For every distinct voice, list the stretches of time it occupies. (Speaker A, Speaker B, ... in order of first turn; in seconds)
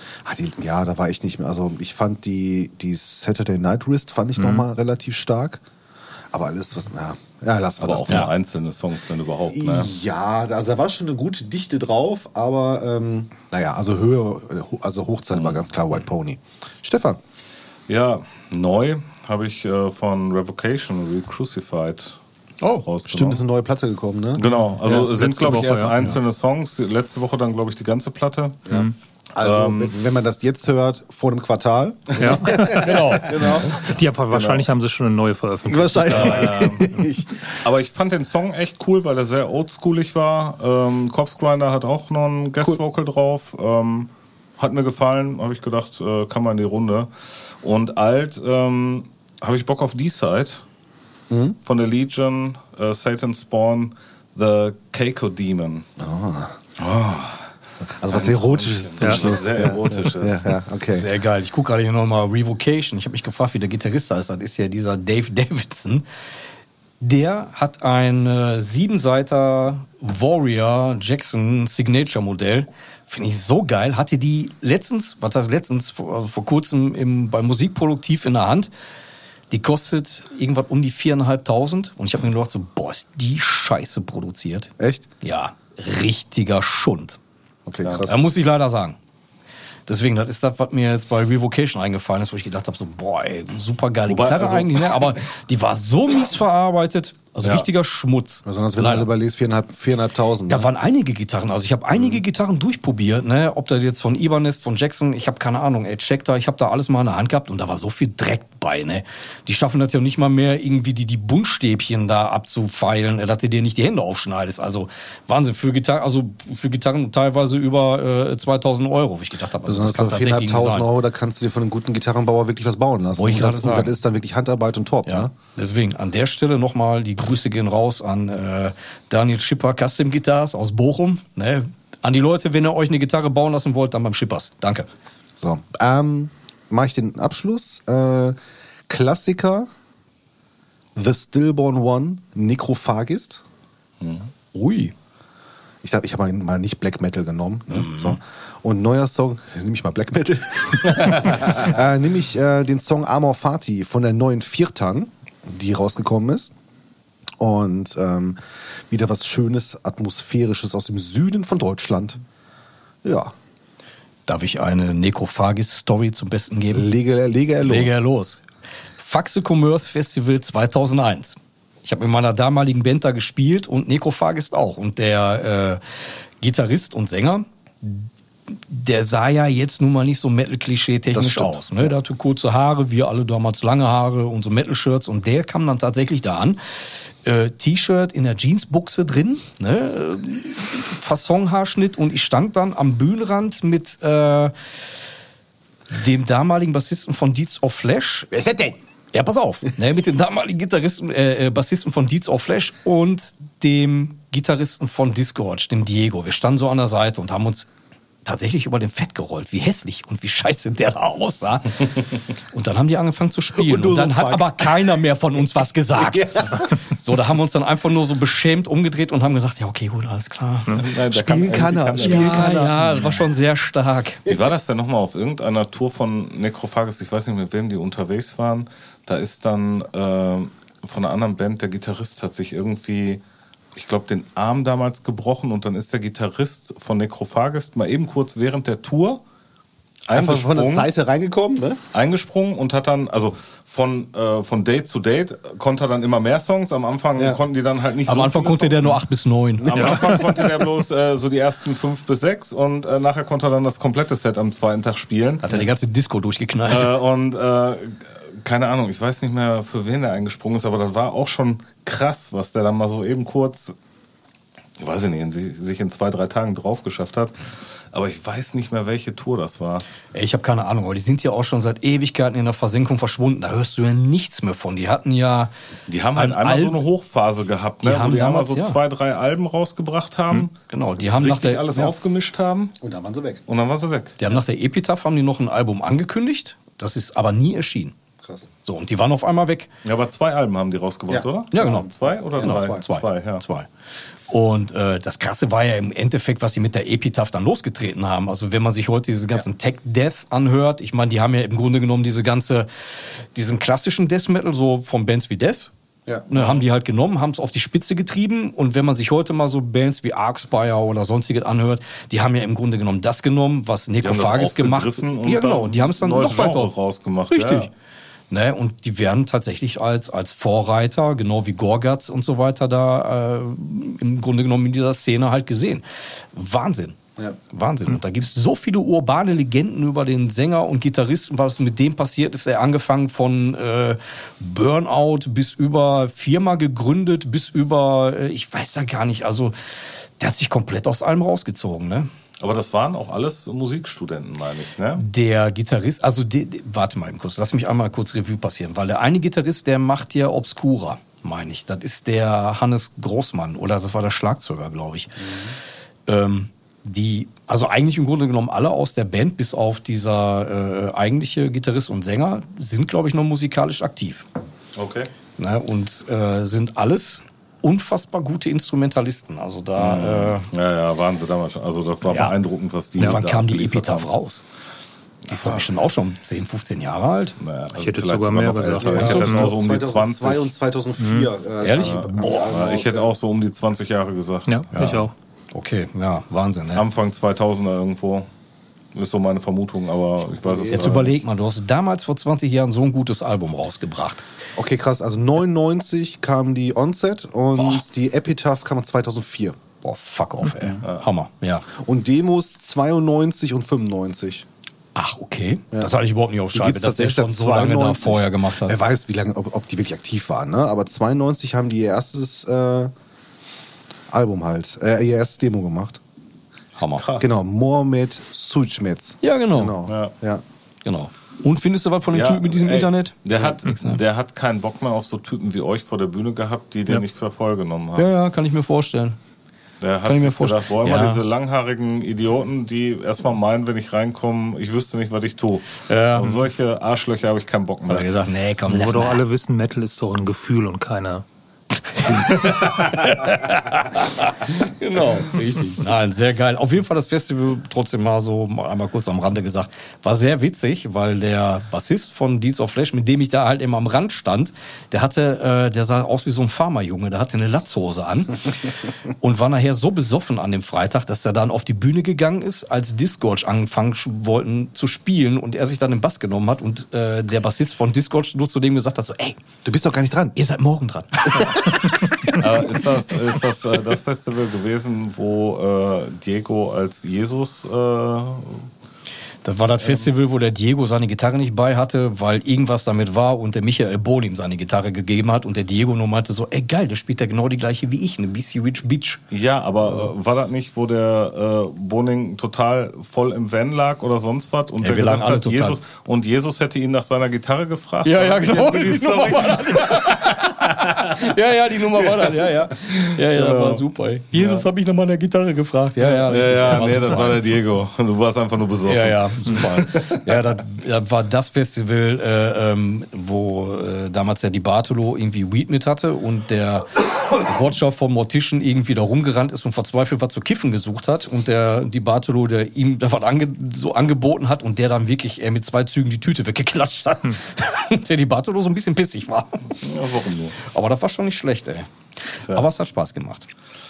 Speaker A: 0.2-5.6, 6.3-8.3, 9.5-17.2, 23.1-25.1, 28.7-33.9, 35.7-37.6, 51.3-51.6, 56.0-56.5, 57.8-61.1, 84.8-85.1, 87.7-88.2, 98.5-100.7, 102.0-102.2, 119.7-125.3, 135.4-138.4, 138.9-139.7, 141.0-143.4, 145.8-156.5, 157.4-158.4, 158.9-162.2, 163.0-163.3, 166.7-168.0, 181.1-181.9, 198.3-198.8, 213.6-216.8, 221.0-223.2, 240.1-241.8, 282.8-283.4, 291.1-292.8, 355.2-355.6, 378.9-383.1, 390.3-391.1, 394.6-399.6, 400.5-400.8, 401.7-404.5, 406.5-412.9, 414.1-416.0, 417.2-420.4, 469.6-470.4
Speaker B: 4.4-4.7, 24.4-25.9, 28.7-28.9, 32.2-36.6, 59.0-59.4, 249.8-250.0, 377.7-379.5, 381.0-381.3, 384.5-385.1, 438.7-441.2
Speaker C: 7.8-9.9, 15.3-15.7, 17.9-22.2, 22.8-23.4, 24.4-28.6, 29.4-29.9, 36.1-47.1, 47.6-50.6, 51.6-55.9, 56.8-57.5, 58.1-60.6, 87.8-88.2, 94.1-95.1, 144.0-144.3, 151.0-151.6, 220.7-222.7, 224.3-233.2, 233.8-239.2, 240.1-240.9, 241.9-249.0, 249.6-255.6, 256.7-263.7, 264.8-269.9, 275.9-280.5, 281.1-282.8, 283.5-284.2, 289.8-293.4, 306.3-306.6, 314.0-317.7, 342.4-345.0, 364.8-365.1, 369.8-374.1, 375.2-375.7, 377.4-380.5, 381.8-385.0, 386.7-388.3, 388.9-391.1, 416.9-417.4, 419.9-420.1, 422.1-428.1, 429.8-438.1, 472.3-478.7, 479.8-480.1, 489.3-501.1, 502.1-504.7, 506.0-510.4, 529.8-530.6
Speaker D: 22.6-22.9, 32.7-33.6, 60.9-66.0, 67.0-78.7, 79.5-84.7, 85.2-87.2, 88.0-89.0, 89.9-99.1, 100.5-120.9, 123.1-124.0, 125.0-134.9, 144.5-144.9, 147.7-148.2, 164.3-166.9, 167.6-168.4, 169.0-194.5, 195.9-198.3, 199.1-207.7, 208.2-220.8, 222.0-224.2, 248.1-250.5, 255.4-256.9, 270.1-275.5, 276.1-276.8, 277.8-278.8, 280.7-281.9, 284.2-287.9, 288.6-289.7, 291.5-293.7, 294.3-305.7, 306.3-316.7, 317.3-317.7, 318.3-339.5, 340.2-342.1, 345.0-355.3, 356.1-364.3, 365.4-370.5, 372.1-372.4, 373.0-374.4, 375.3-377.4, 381.6-382.6, 384.7-386.9, 390.7-394.2, 399.8-401.7, 404.9-408.8, 416.8-417.1, 419.2-419.8, 420.9-424.0, 428.0-429.2, 430.1-431.2, 435.9-436.5, 437.9-439.2, 441.8-469.4, 470.4-473.0, 479.4-489.2, 489.9-490.1, 494.8-495.8, 498.0-507.5, 508.9-529.7, 530.6-533.5